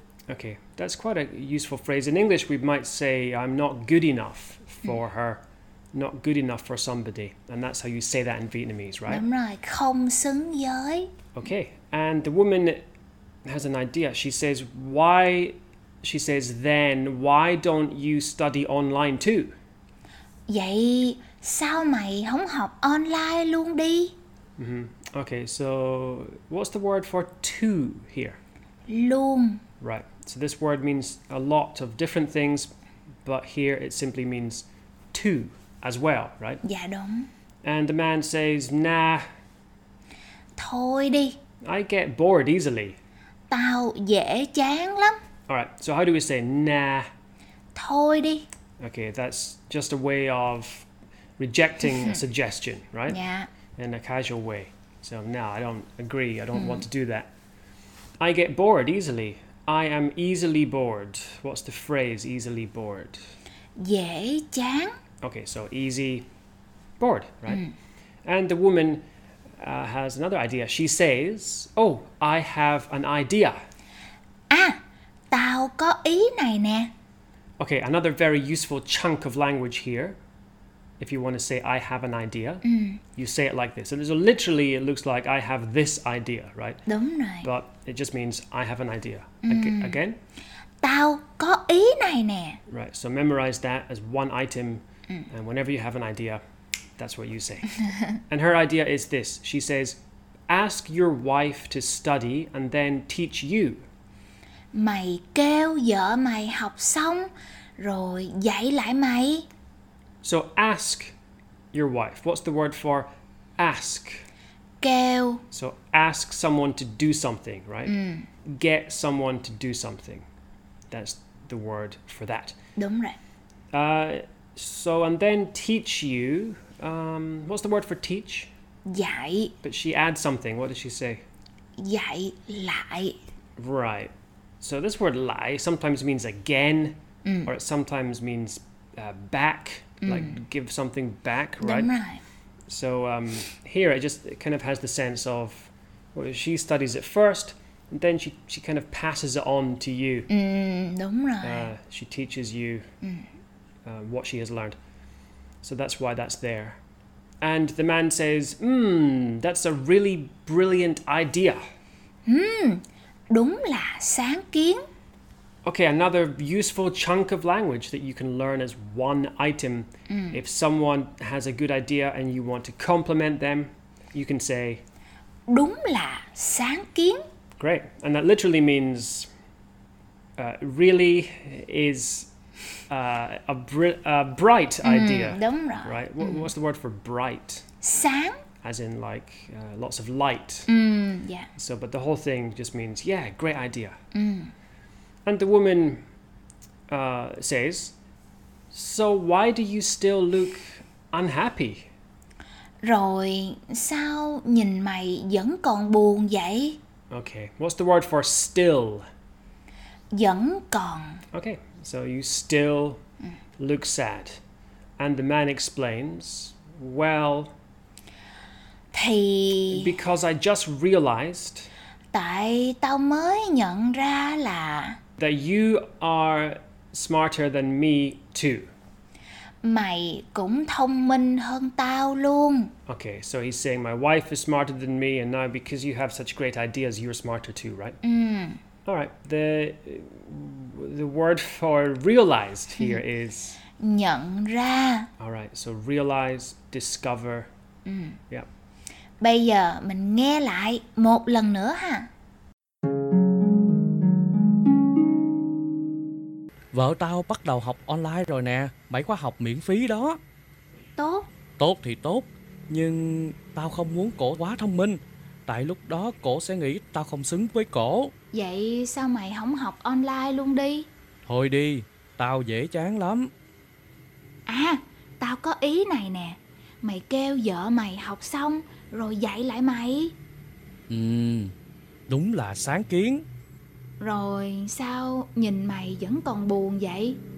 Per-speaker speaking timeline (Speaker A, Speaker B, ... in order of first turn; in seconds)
Speaker A: 0.3-9.3, 11.3-12.9, 13.5-19.6, 24.6-28.4, 29.8-32.7, 33.2-36.6, 37.6-39.2, 41.6-43.0, 45.5-47.1, 48.8-50.9, 51.4-53.2, 53.8-57.3, 58.2-63.2, 65.2-66.3, 67.0-67.6, 68.2-69.0, 69.6-73.6, 77.6-80.2, 81.0-82.6, 83.2-86.9, 87.4-90.2, 92.7-96.4, 97.0-103.9, 110.2-111.2, 111.7-114.2, 115.5-120.2, 120.9-122.5, 123.7-128.5, 129.6-131.2, 133.6-141.9, 142.7-150.3, 151.4-152.9, 153.9-154.8, 155.6-156.8, 157.4-161.6, 165.7-174.8, 177.6-179.3, 180.4-182.3, 182.9-187.6, 188.6-190.7, 191.6-194.0, 195.3-196.0, 196.9-197.9, 198.7-201.9, 207.1-209.1, 211.3-213.0, 213.6-214.4, 215.0-217.6, 219.7-221.7, 225.2-228.7, 232.9-238.0, 238.9-243.6, 245.2-247.5
Speaker B: 9.1-11.1, 20.5-24.2, 28.9-29.6, 36.6-37.3, 40.6-41.4, 43.5-45.2, 47.8-48.5, 53.1-53.5, 56.6-56.8, 63.8-65.0, 67.5-67.7, 74.5-74.8, 75.3-76.9, 82.6-83.0, 86.9-87.5, 89.5-90.0, 90.8-92.6, 104.7-109.5, 114.8-115.4, 117.9-118.3, 122.8-123.2, 128.9-129.6, 131.8-133.2, 137.2-137.5, 140.1-140.3, 141.6-142.2, 150.3-151.7, 153.0-153.3, 162.3-164.8, 170.1-170.4, 175.5-177.2, 184.8-186.5, 187.8-188.4, 190.7-191.5, 194.1-194.5, 202.8-206.8, 210.1-211.2, 218.9-219.9, 222.1-225.0, 229.6-232.7, 238.0-238.6, 243.8-245.1, 247.9-248.2, 249.2-252.1, 261.0-261.3, 268.3-270.9, 274.5-280.2, 284.0-287.2
Speaker C: 256.7-260.2, 261.6-268.1, 271.3-273.3, 280.9-281.5, 282.1-283.3